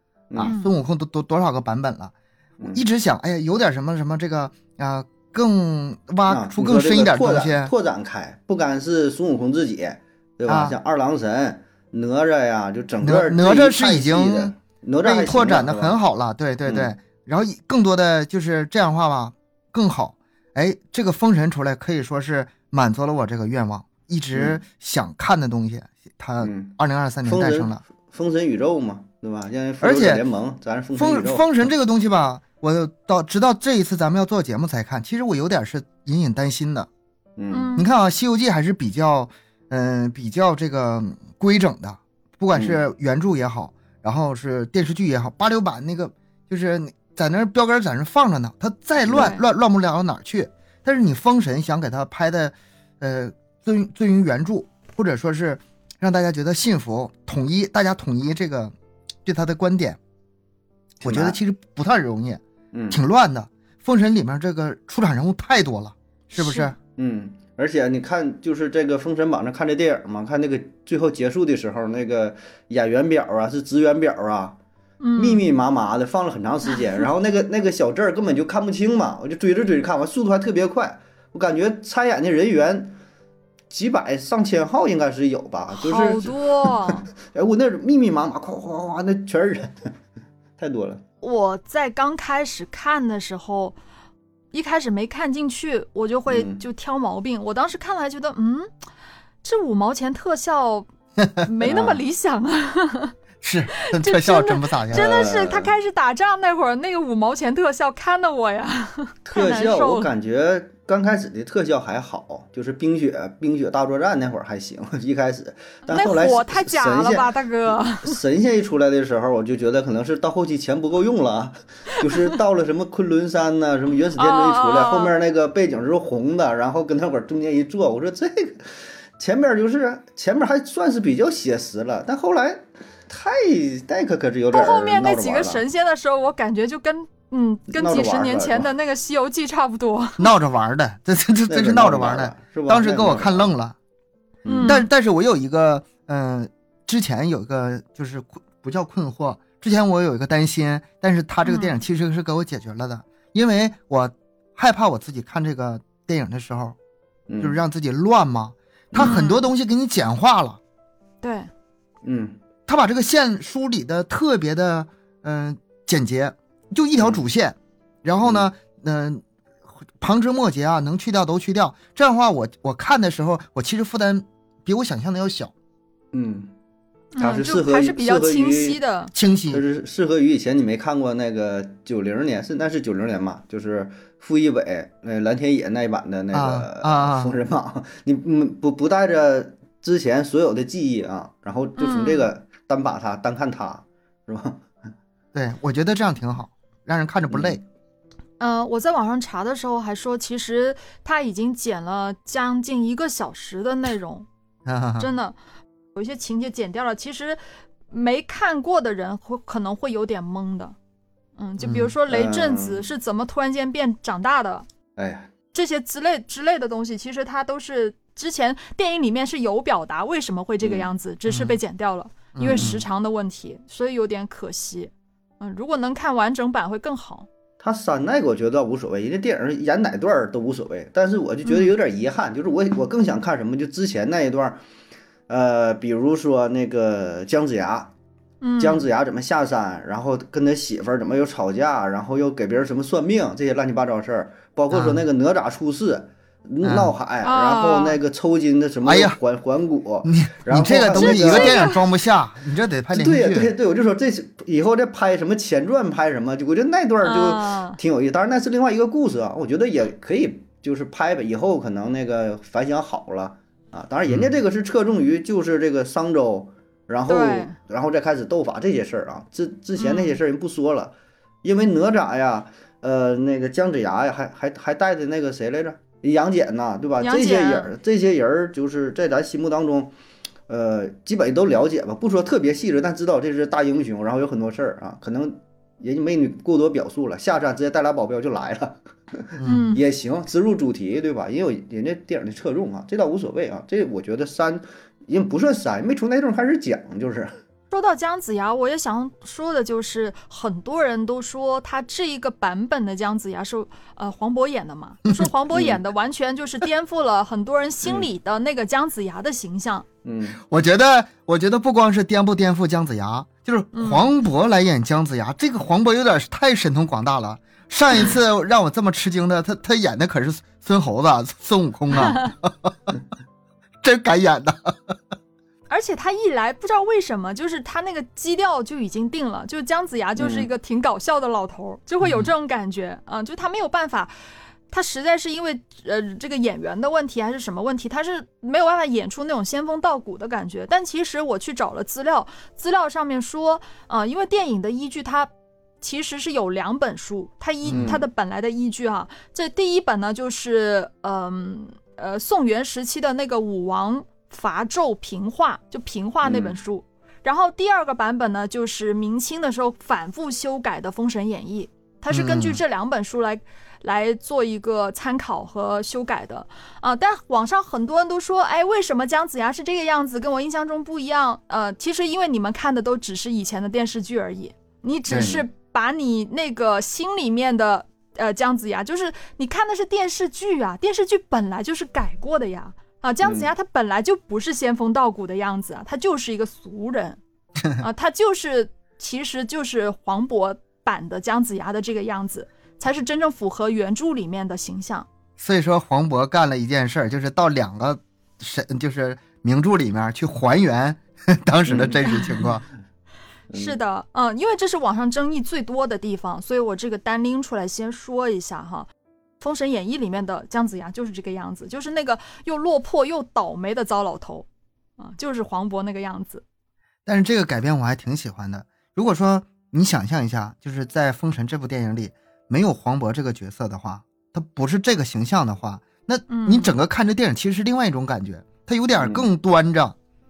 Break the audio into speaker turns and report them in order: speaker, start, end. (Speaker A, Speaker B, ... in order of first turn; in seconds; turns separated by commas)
Speaker A: 0.3-7.7, Speaker B: 0.4-0.7, Speaker C: 6.3-16.0, Speaker A: 10.5-10.8, Speaker A: 13.0-27.8, Speaker C: 16.6-16.9, Speaker C: 24.3-24.6, Speaker C: 26.4-26.7, Speaker C: 27.2-31.5, Speaker A: 29.8-30.2, Speaker A: 31.0-36.9, Speaker C: 37.4-37.7, Speaker B: 37.5-37.9, Speaker A: 37.8-58.7, Speaker C: 42.5-42.8, Speaker C: 49.1-49.3, Speaker B: 49.1-49.4, Speaker A: 59.2-60.0, Speaker A: 61.0-66.8, Speaker C: 61.0-61.4, Speaker C: 62.7-63.0, Speaker B: 66.3-66.7, Speaker C: 67.0-74.6, Speaker B: 75.0-75.4, Speaker C: 75.2-83.0, Speaker C: 83.7-89.9, Speaker B: 85.7-87.1, Speaker C: 90.6-91.0, Speaker B: 91.2-93.7, Speaker B: 94.5-98.7, Speaker C: 96.3-96.6, Speaker B: 99.4-100.9, Speaker B: 101.4-103.1, Speaker C: 101.6-102.0, Speaker A: 103.4-105.1, Speaker B: 103.8-110.1, Speaker C: 104.9-105.7, Speaker C: 109.2-135.6, Speaker B: 115.8-118.2, Speaker B: 124.2-125.1, Speaker B: 134.5-140.2, Speaker C: 137.7-138.7, Speaker A: 140.2-143.8, Speaker C: 141.5-143.5, Speaker C: 144.4-144.8, Speaker B: 144.4-144.9, Speaker A: 144.6-156.8, Speaker B: 151.4-151.8, Speaker C: 157.3-157.6, Speaker A: 157.4-160.6, Speaker C: 158.9-159.2, Speaker B: 158.9-159.5, Speaker B: 161.2-161.5, Speaker C: 162.0-162.3, Speaker A: 162.7-169.2, Speaker C: 168.2-168.5, Speaker A: 170.0-175.5, Speaker C: 176.1-176.5, Speaker B: 177.2-179.1, Speaker C: 177.2-178.8, Speaker A: 179.1-179.6, Speaker C: 179.5-194.7, Speaker A: 186.3-187.3, Speaker B: 191.8-192.3, Speaker A: 195.3-197.6, Speaker C: 197.3-197.6, Speaker B: 198.4-204.3, Speaker A: 204.7-205.1, Speaker B: 205.0-205.3, Speaker B: 205.9-210.8, Speaker B: 211.4-214.7, Speaker C: 211.6-212.8, Speaker C: 215.0-215.3, Speaker B: 215.5-227.3, Speaker A: 221.3-221.6, Speaker A: 222.3-222.8, Speaker C: 222.4-222.8, Speaker C: 227.6-234.6, Speaker B: 231.4-231.7, Speaker C: 235.3-237.9, Speaker B: 238.4-238.9, Speaker C: 238.6-251.7, Speaker A: 244.7-245.0, Speaker A: 246.6-246.9, Speaker B: 247.2-248.0, Speaker A: 248.8-249.2, Speaker A: 250.0-253.5, Speaker B: 250.9-251.8, Speaker C: 252.9-279.9, Speaker B: 257.0-257.8, Speaker B: 267.1-267.6, Speaker B: 269.8-270.2, Speaker B: 277.0-277.7, Speaker C: 280.5-297.3, Speaker A: 289.4-289.6, Speaker B: 289.4-289.8, Speaker B: 297.7-309.9, Speaker C: 305.5-305.8, Speaker C: 307.8-308.1, Speaker C: 310.0-310.4, Speaker A: 310.4-322.9, Speaker B: 313.7-314.1, Speaker B: 321.9-322.3, Speaker A: 323.8-324.9, Speaker B: 325.7-334.1, Speaker C: 330.2-330.5, Speaker A: 332.0-332.3, Speaker B: 334.7-345.3, Speaker B: 345.8-387.2, Speaker A: 347.6-348.0, Speaker C: 347.7-348.0, Speaker C: 356.2-356.6, Speaker A: 362.1-362.6, Speaker A: 375.1-375.4, Speaker C: 375.1-375.4, Speaker C: 383.2-383.5, Speaker B: 387.8-395.1, Speaker A: 395.4-402.6, Speaker C: 401.7-402.5, Speaker C: 403.5-403.7, Speaker B: 403.5-408.9, Speaker B: 409.4-414.4, Speaker B: 415.0-416.4, Speaker A: 417.1-429.9, Speaker B: 426.3-426.7, Speaker C: 429.0-429.3